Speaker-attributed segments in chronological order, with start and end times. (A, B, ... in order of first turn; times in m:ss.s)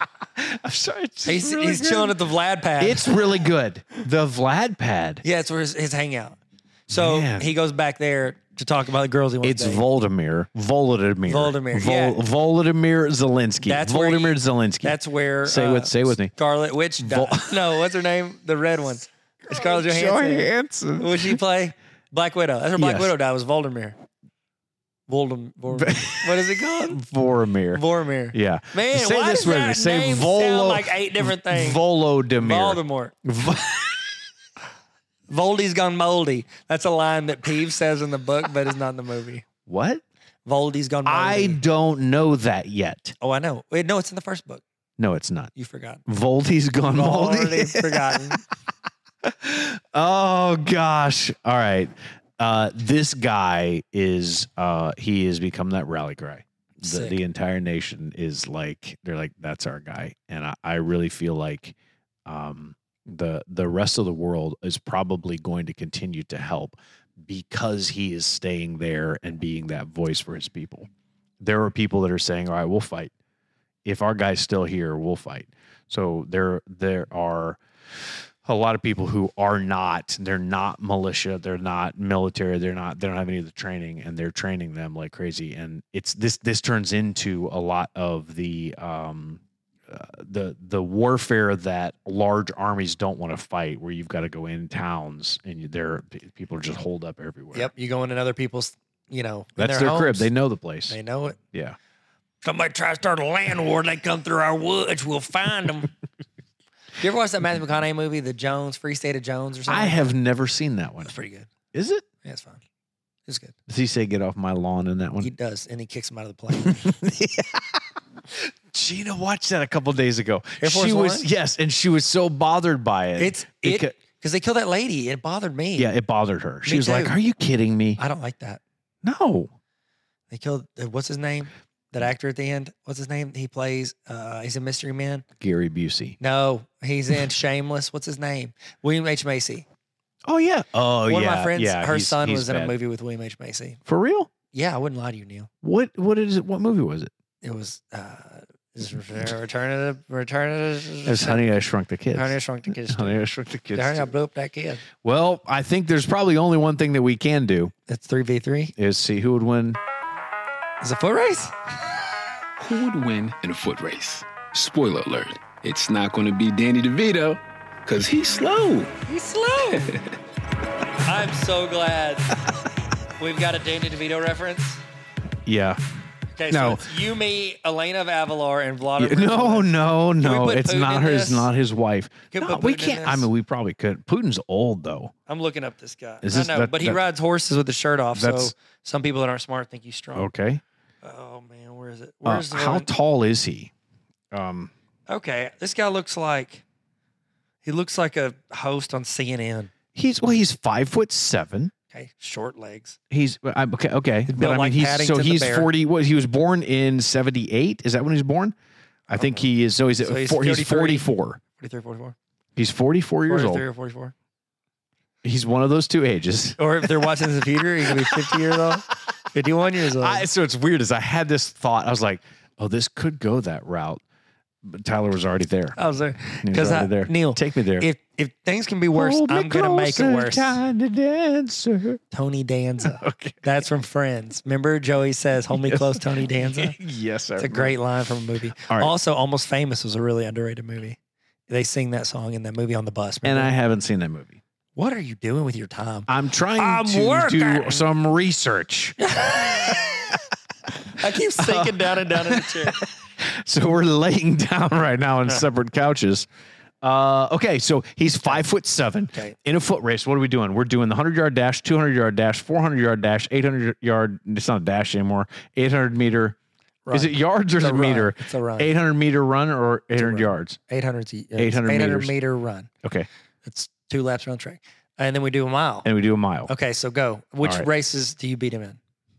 0:00.4-0:02.2 A
0:01.2-0:03.2 B
0:02.8-0:05.2 A
0:05.2-0:09.8 B
0:06.9-0:07.5 A
0:09.4-0:16.3 A
0:11.3-0:12.2 B
0:13.6-0:24.0 B
0:17.0-0:17.8 A
0:19.5-0:21.4 A
0:22.8-0:23.2 A
0:25.1-0:27.0 B
0:25.7-0:34.2 A
0:27.7-0:31.8 B
0:32.4-0:33.1 B
0:35.3-0:39.4 B
0:39.7-0:40.0 A
0:40.5-0:41.6 B
0:41.1-0:43.2 A
0:43.2-0:44.6 B
0:45.0-0:45.5 A
0:45.6-0:46.0 B
0:46.1-0:48.4 A
0:46.8-0:48.4 B
0:49.2-1:01.8 A
0:56.8-0:57.2 B
1:02.3-1:10.9 A
1:11.4-1:13.1 A
1:13.8-1:17.6 A
1:18.4-1:37.7 A
1:37.5-1:40.3 B
1:39.6-1:41.0 A
1:40.9-1:41.4 B
1:41.5-1:41.8 A
1:42.4-1:45.9 B
1:47.0-1:50.2 B
1:49.7-1:51.1 A
1:51.0-1:51.5 B
1:51.7-1:52.1 A
1:52.2-1:52.6 B
1:53.3-1:53.6 B
1:53.7-1:55.3 A
1:55.2-1:56.9 B
1:56.5-2:04.0 A
2:00.6-2:01.3 B
2:03.2-2:05.9 B
2:05.8-2:08.0 A
2:06.6-2:07.2 B
2:08.0-2:08.6 B
2:09.0-2:09.5 A
2:10.3-2:15.2 B
2:15.4-2:16.2 A
2:16.2-2:19.7 B
2:20.3-2:22.8 A
2:21.1-2:23.8 B
2:23.9-2:24.3 A
2:24.5-2:25.5 B
2:25.6-2:27.1 A
2:27.4-2:31.5 B
2:31.0-2:34.1 A
2:32.1-2:34.8 B
2:35.0-2:37.7 A
2:37.9-2:38.7 B
2:38.8-2:39.8 A
2:40.8-2:41.6 B
2:42.6-2:49.0 C
2:49.0-2:50.0 B
2:49.7-2:50.1 C
2:51.0-2:52.3 B
2:53.2-2:54.8 B
2:55.5-2:55.8 A
2:56.4-3:01.5 B
2:56.5-2:56.9 A
2:59.0-3:05.1 A
3:02.3-3:03.3 B
3:05.3-3:10.3 B
3:06.2-3:07.0 A
3:08.2-3:08.5 A
3:10.2-3:10.6 A
3:11.0-3:12.9 B
3:12.2-3:13.7 A
3:14.3-3:14.7 A
3:15.1-3:16.6 B
3:17.6-3:19.7 B
3:20.0-3:21.7 A
3:21.9-3:23.0 B
3:23.1-3:28.6 A
3:24.3-3:25.7 B
3:29.1-3:31.4 A
3:29.1-3:29.4 B
3:30.0-3:32.2 B
3:32.6-3:33.6 A
3:33.3-3:34.1 B
3:35.2-3:37.2 A
3:36.6-3:40.3 B
3:37.8-3:38.8 A
3:39.8-3:44.0 A
3:44.6-3:45.8 A
3:45.8-3:50.6 B
3:46.4-3:47.9 A
3:48.9-3:52.0 A
3:52.1-3:56.8 B
3:52.8-3:53.4 A
3:55.5-3:57.8 A
3:57.4-4:01.0 B
3:58.6-3:58.9 A
4:01.5-4:03.5 B
4:03.2-4:04.4 A
4:04.8-4:07.9 B
4:06.1-4:10.2 A
4:09.0-4:10.1 B
4:10.9-4:12.8 B
4:11.4-4:16.3 A
4:16.8-4:26.4 A
4:26.9-4:28.7 B
4:26.9-4:30.6 A
4:30.0-4:32.7 B
4:31.4-4:32.1 A
4:32.8-4:33.1 A
4:33.4-4:35.9 B
4:35.8-4:36.5 A
4:36.5-4:38.8 B
4:37.4-4:37.7 A